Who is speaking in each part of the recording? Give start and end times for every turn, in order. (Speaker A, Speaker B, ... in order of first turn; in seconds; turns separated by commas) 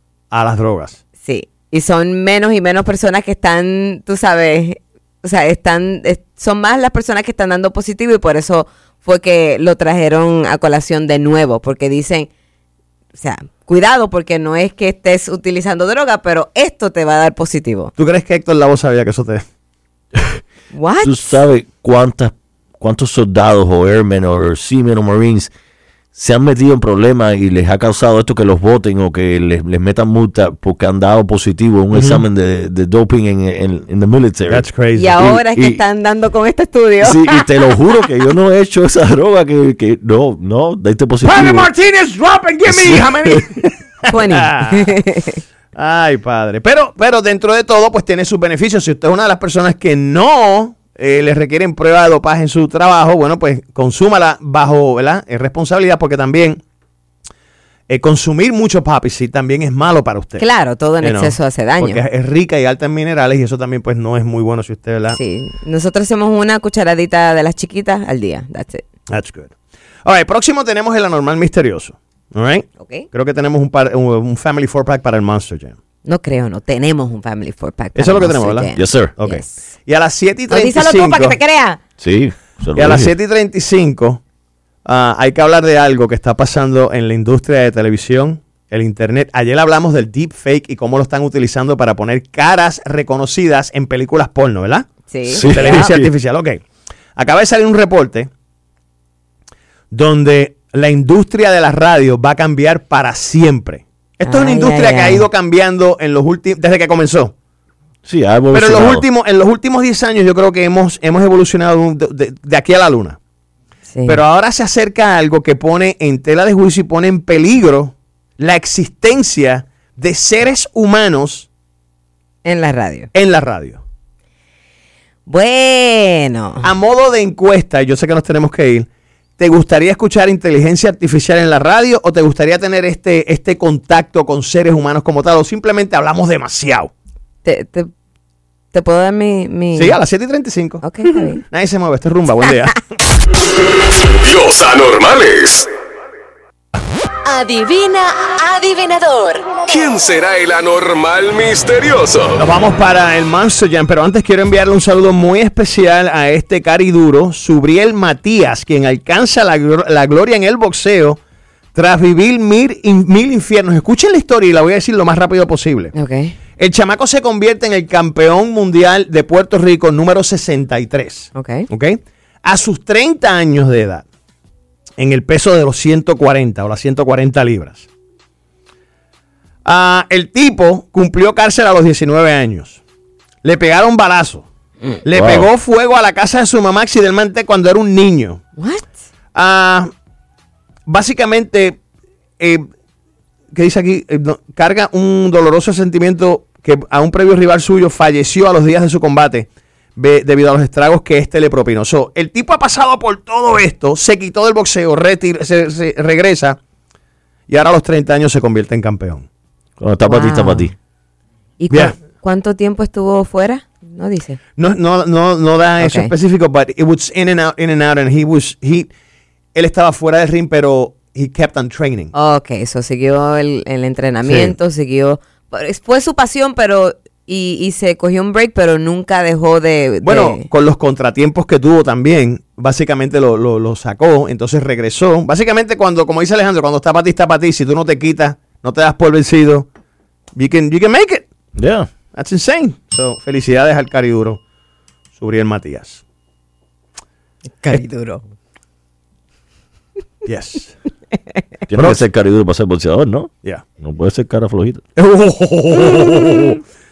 Speaker A: 0.3-1.0, Speaker B: 1.2-12.3, Speaker B: 13.2-17.9, Speaker A: 18.0-19.4, Speaker B: 20.7-21.4, Speaker C: 21.0-25.5, Speaker C: 26.1-35.8, Speaker A: 31.9-32.2, Speaker A: 34.5-35.2, Speaker B: 35.0-37.5, Speaker C: 37.0-41.7, Speaker A: 41.2-44.9, Speaker C: 42.7-43.5, Speaker B: 44.1-45.4, Speaker A: 45.8-56.6, Speaker A: 57.9-60.4, Speaker B: 60.4-62.0, Speaker A: 61.0-65.2, Speaker B: 65.2-68.8, Speaker A: 69.1-75.8, Speaker B: 72.8-73.1, Speaker B: 76.0-79.5, Speaker A: 78.0-78.7, Speaker C: 78.8-79.1, Speaker A: 79.2-81.4, Speaker B: 80.5-81.8, Speaker C: 82.0-83.1, Speaker A: 82.8-84.2, Speaker A: 84.8-94.9, Speaker B: 95.1-96.0, Speaker C: 95.3-96.1, Speaker A: 95.5-96.6, Speaker A: 97.2-98.3, Speaker A: 99.9-107.3, Speaker B: 104.2-105.2, Speaker C: 108.0-109.0, Speaker A: 108.5-113.2, Speaker B: 113.9-114.2, Speaker A: 114.1-121.5, Speaker B: 122.5-123.1, Speaker A: 123.1-123.8, Speaker B: 125.3-126.7, Speaker A: 126.6-128.9, Speaker A: 129.4-136.9, Speaker B: 137.4-137.9, Speaker B: 138.7-140.0, Speaker A: 139.7-142.8, Speaker B: 140.8-141.4, Speaker D: 144.2-145.7, Speaker E: 147.3-149.5, Speaker D: 149.7-152.4, Speaker A: 152.4-161.2, Speaker A: 161.8-165.9, Speaker B: 165.9-166.4, Speaker A: 166.6-174.1, Speaker B: 171.3-171.7, Speaker A: 175.0-177.9, Speaker A: 179.7-182.8, Speaker A: 183.4-184.5, Speaker A: 185.1-188.4, Speaker C: 185.1-185.5, Speaker B: 188.6-188.9, Speaker A: 189.3-189.9, Speaker A: 190.9-191.8, Speaker A: 192.4-192.7, Speaker A: 193.5-206.6, Speaker A: 207.5-209.3, Speaker C: 209.8-210.7, Speaker B: 210.1-210.7, Speaker B: 211.6-214.4, Speaker A: 211.7-212.0, Speaker A: 214.6-218.9, Speaker B: 215.8-216.1, Speaker A: 219.6-222.1, Speaker B: 222.1-230.4, Speaker A: 224.2-224.5, Speaker A: 230.0-239.7, Speaker A: 240.3-241.3, Speaker C: 241.6-241.9, Speaker A: 242.1-244.4, Speaker A: 245.2-246.0, Speaker B: 247.6-248.2, Speaker A: 250.2-250.8, Speaker C: 251.7-254.8, Speaker A: 251.8-252.0, Speaker A: 255.0-256.6